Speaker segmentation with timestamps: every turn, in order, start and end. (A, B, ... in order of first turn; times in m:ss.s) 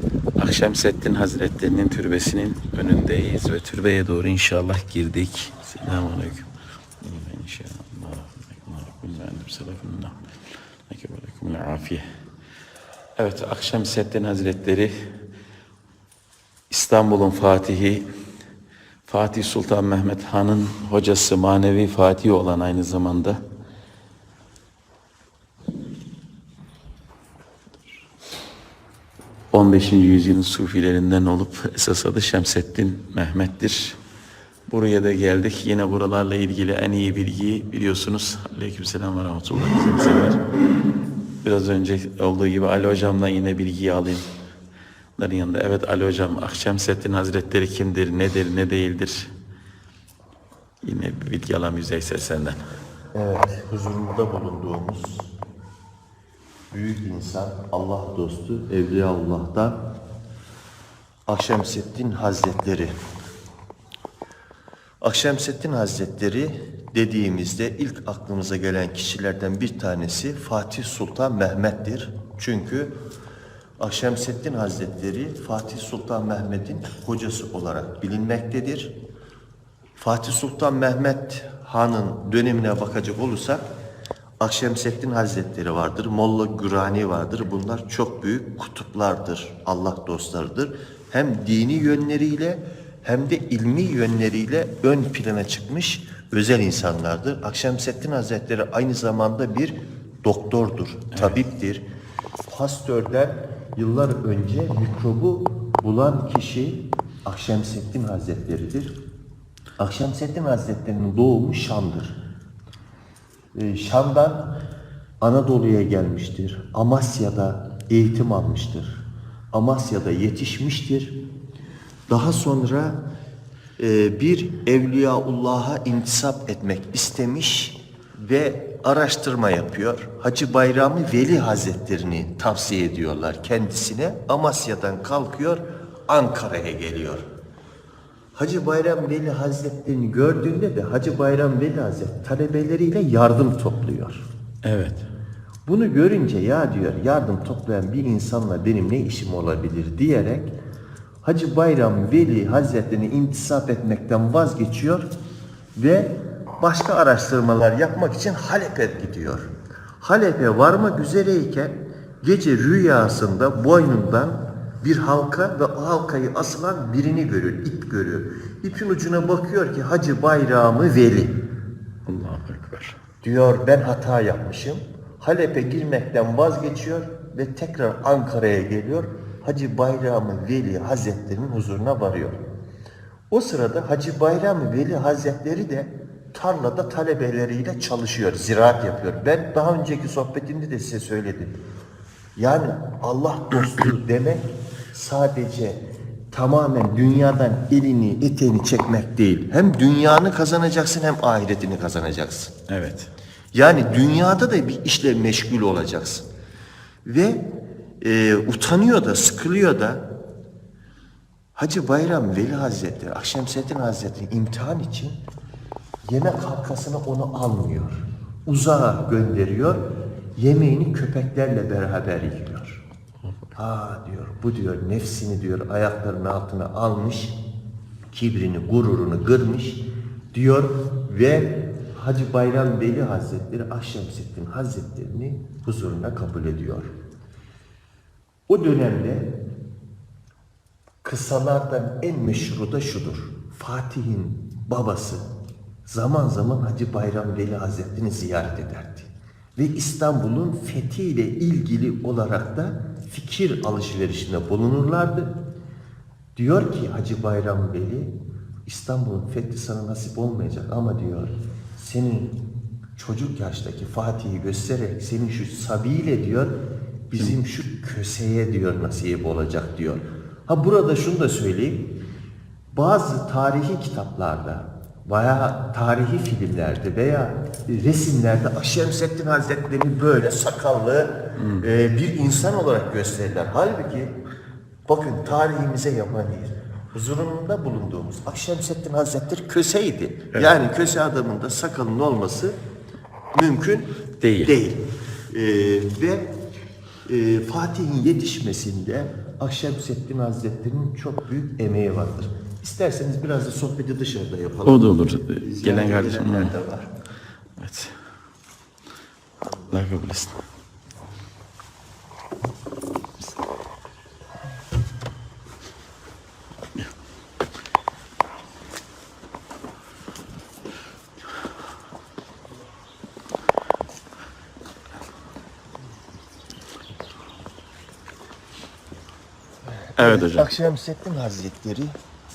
0:00.4-0:06.5 A
0:07.0-0:10.2 A
0:10.9-0:12.1 A
0:13.2-0:14.9 A
0:16.7-0:18.1 A
0:19.1-0:23.4 A
0:29.5-0:34.0 A
0:34.7-0:40.4 A
0:41.4-0:44.2 A
0:45.2-0:49.3 A
0:50.8-0:52.6 A
0:53.1-0:55.3 B
0:56.7-0:59.8 B
1:01.3-1:02.9 B
1:05.0-1:13.0 B
1:13.8-1:18.9 B
1:20.0-1:23.7 B
1:24.4-1:41.8 B
1:41.1-1:41.4 A
1:42.5-1:49.0 B
1:49.8-1:52.2 B
1:53.6-1:54.6 B
1:55.2-2:01.2 B
2:02.1-2:03.0 B
2:03.8-2:17.2 B
2:18.4-2:24.3 B
2:24.6-2:25.0 A
2:25.7-2:30.6 B
2:31.2-2:35.1 B
2:35.8-2:51.4 B
2:52.1-2:53.0 A
2:53.2-3:02.4 B
3:03.3-3:11.6 B
3:12.4-3:22.5 B
3:22.7-3:23.1 A
3:23.5-3:26.3 B
3:27.0-3:27.5 B
3:28.0-3:30.0 B
3:31.6-3:35.2 B
3:36.0-3:39.8 B
3:40.4-3:42.8 B
3:43.6-3:47.4 B
3:48.1-3:56.9 B
3:58.5-3:59.4 B
4:01.0-4:05.3 B
4:05.9-4:15.4 B
4:16.4-4:18.2 B
4:18.7-4:22.4 B
4:23.0-4:26.6 B
4:27.1-4:31.9 B
4:32.7-4:44.2 B
4:41.4-4:41.6 A
4:44.9-4:52.6 B
4:53.3-4:56.3 B
4:54.2-4:54.6 A
4:57.1-5:06.9 B
5:04.6-5:06.5 A
5:07.6-5:07.9 A
5:09.7-5:10.4 A
5:29.8-5:31.9 B
5:30.0-5:30.5 A